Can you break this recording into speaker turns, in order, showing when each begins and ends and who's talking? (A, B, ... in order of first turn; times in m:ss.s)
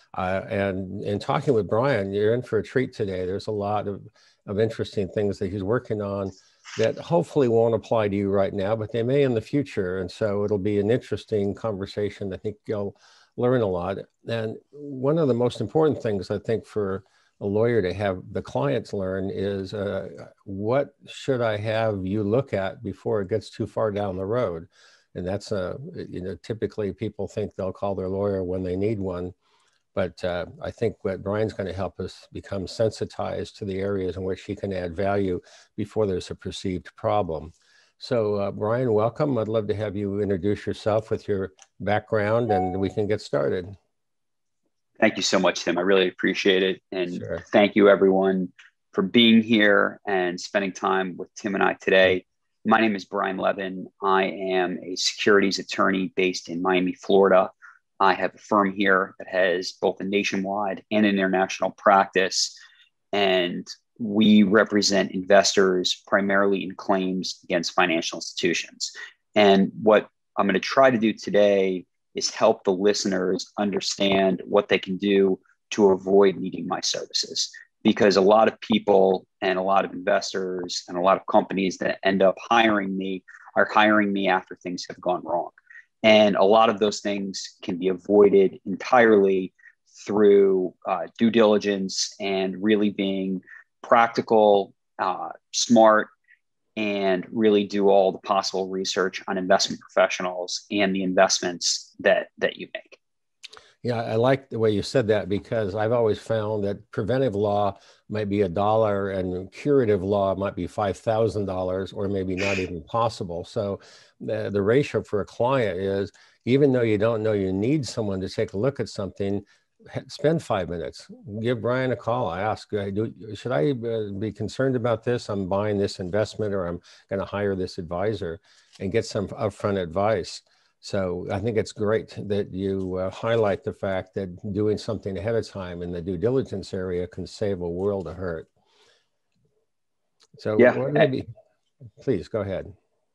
0:00.1-0:29.3 A
0:29.9-0:43.8 A
0:45.0-1:02.6 B
0:47.2-0:47.4 A
1:03.1-1:36.1 B
1:36.8-1:43.0 B
1:43.8-2:18.5 A
2:20.4-2:21.3 A
2:20.6-2:21.1 B
2:22.0-2:22.7 A